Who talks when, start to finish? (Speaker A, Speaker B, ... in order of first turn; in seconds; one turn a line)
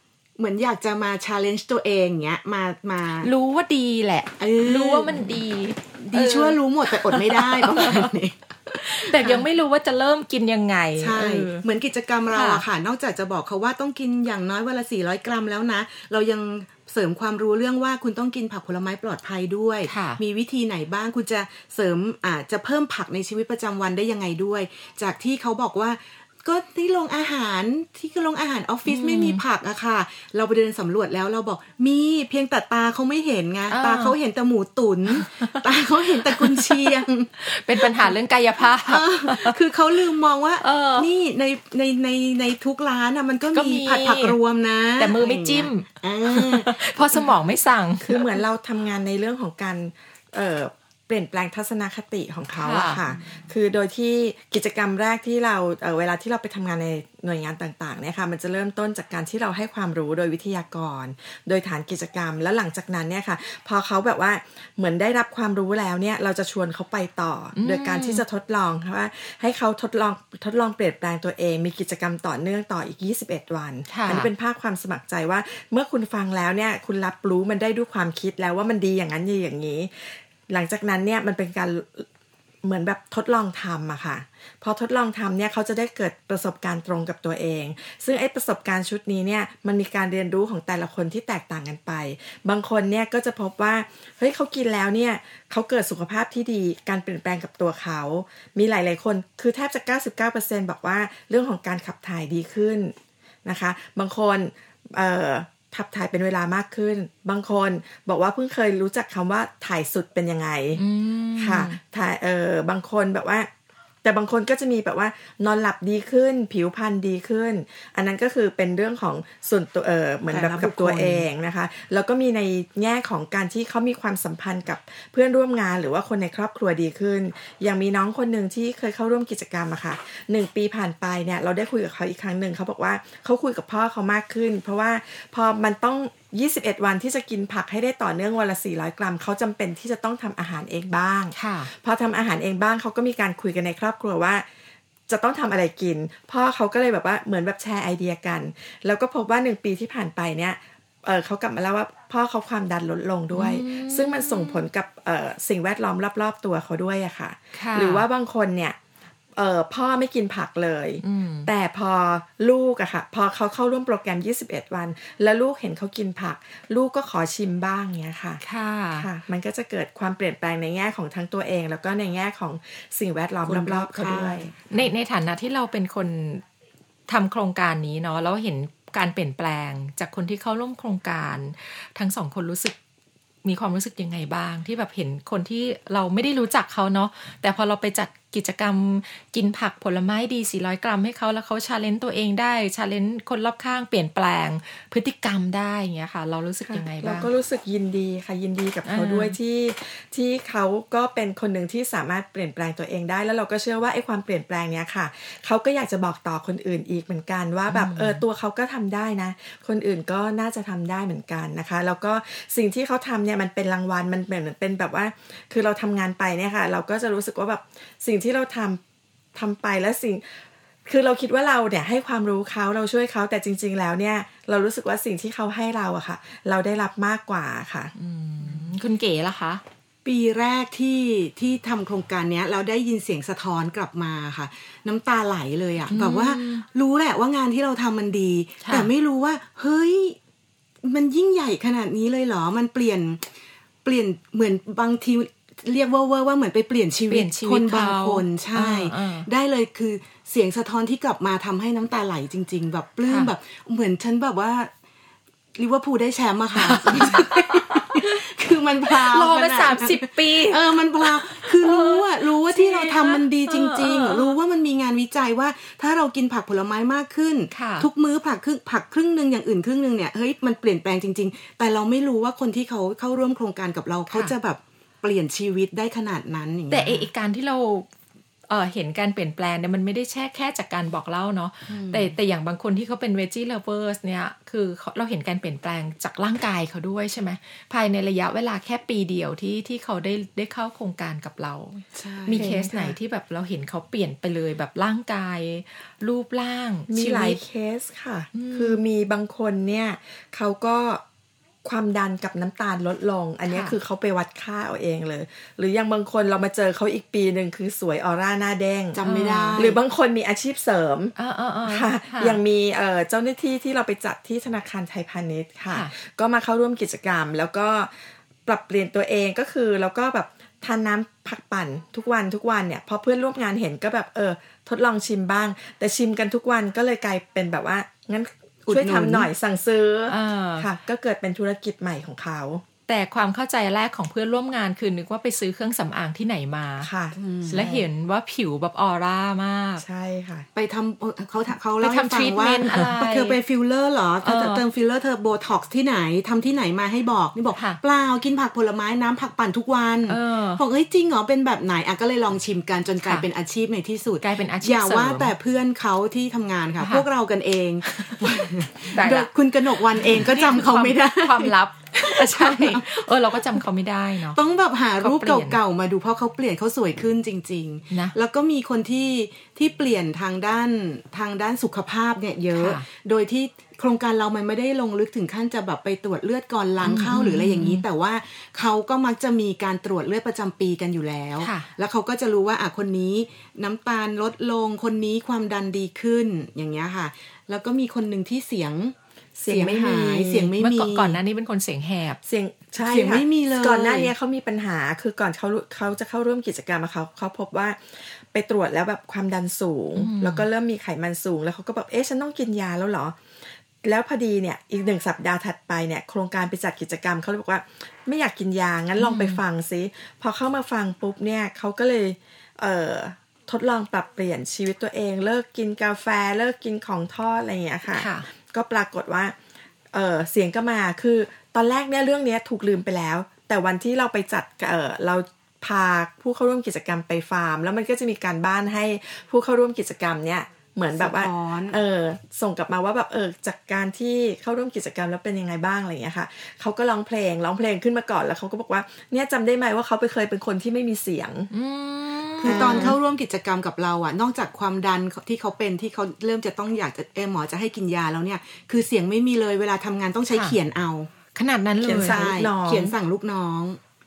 Speaker A: 0.4-3.3
Speaker B: 3.2-8.1
Speaker A: 4.4-5.4
Speaker A: 6.0-9.5
Speaker B: 8.8-11.6
Speaker A: 11.0-38.2
Speaker B: 12.3-12.6
Speaker B: 19.9-20.2
Speaker B: 28.9-29.4
Speaker B: 33.7-34.1
Speaker B: 35.1-35.6
Speaker B: 36.2-39.5
Speaker A: 38.8-47.3
Speaker B: 40.6-41.1
Speaker B: 43.5-44.4
Speaker B: 45.0-48.3
Speaker C: 48.0-82.1
Speaker B: 52.5-53.0
Speaker B: 67.5-68.2
Speaker B: 73.9-74.3
Speaker C: 82.6-102.9
Speaker C: 103.4-110.8
Speaker B: 110.8-111.8
Speaker C: 111.4-113.5
Speaker C: 114.0-144.4
Speaker A: 120.3-121.2
Speaker B: 141.3-141.7
Speaker C: 145.1-158.8
Speaker B: 153.3-154.7
Speaker B: 157.5-158.0
Speaker C: 159.3-168.4
Speaker B: 161.0-161.5
Speaker B: 168.4-169.1
Speaker C: 168.9-174.5
Speaker A: 173.4-174.6
Speaker B: 174.7-176.4
Speaker B: 177.1-182.8
Speaker B: 183.4-197.3
Speaker C: 196.7-218.8
Speaker B: 198.8-199.3
Speaker B: 207.7-208.2
Speaker C: 219.3-227.9
Speaker B: 227.9-229.6
Speaker A: 230.0-240.2
Speaker B: 235.9-236.6
Speaker B: 238.6-238.9
Speaker A: 240.8-243.3
Speaker A: 243.8-254.7
Speaker B: 247.1-249.3
Speaker B: 253.1-253.3
Speaker A: 255.6-277.1
Speaker B: 256.6-258.2
Speaker B: 258.9-264.3
Speaker B: 267.5-267.9
Speaker B: 276.7-277.9
Speaker B: 278.5-297.4
Speaker A: 281.7-282.2
Speaker A: 291.9-292.6
Speaker C: 292.3-293.0
Speaker C: 296.9-301.0
Speaker B: 298.3-298.8
Speaker C: 301.6-309.0
Speaker B: 303.5-303.8
Speaker A: 308.9-309.8
Speaker B: 309.0-309.6
Speaker C: 309.6-311.1
Speaker B: 311.2-312.4
Speaker C: 311.6-332.6
Speaker A: 328.7-329.3
Speaker B: 330.1-330.7
Speaker B: 332.9-336.9
Speaker C: 336.8-337.8
Speaker A: 337.1-337.6
Speaker B: 337.5-339.8
Speaker C: 339.8-340.5
Speaker A: 340.5-363.6
Speaker B: 341.8-343.4
Speaker B: 344.2-344.6
Speaker B: 347.5-347.8
Speaker B: 350.1-350.6
Speaker B: 354.2-355.3
Speaker B: 357.8-364.4
Speaker A: 364.3-388.9
Speaker B: 365.0-365.6
Speaker B: 372.5-372.9
Speaker B: 376.8-377.8
Speaker B: 381.4-381.7
Speaker C: 389.4-390.5
Speaker A: 389.5-391.2
Speaker B: 390.6-392.2
Speaker C: 392.2-403.2
Speaker A: 392.8-394.1
Speaker B: 399.9-400.4
Speaker C: 403.8-419.4
Speaker B: 409.0-409.4
Speaker B: 417.9-418.3
Speaker C: 419.9-441.5
Speaker A: 430.9-431.8
Speaker B: 441.5-442.9
Speaker A: 442.4-451.1
Speaker C: 442.4-443.0
Speaker B: 450.3-450.6
Speaker B: 451.3-452.2
Speaker C: 451.8-452.9
Speaker A: 451.9-453.8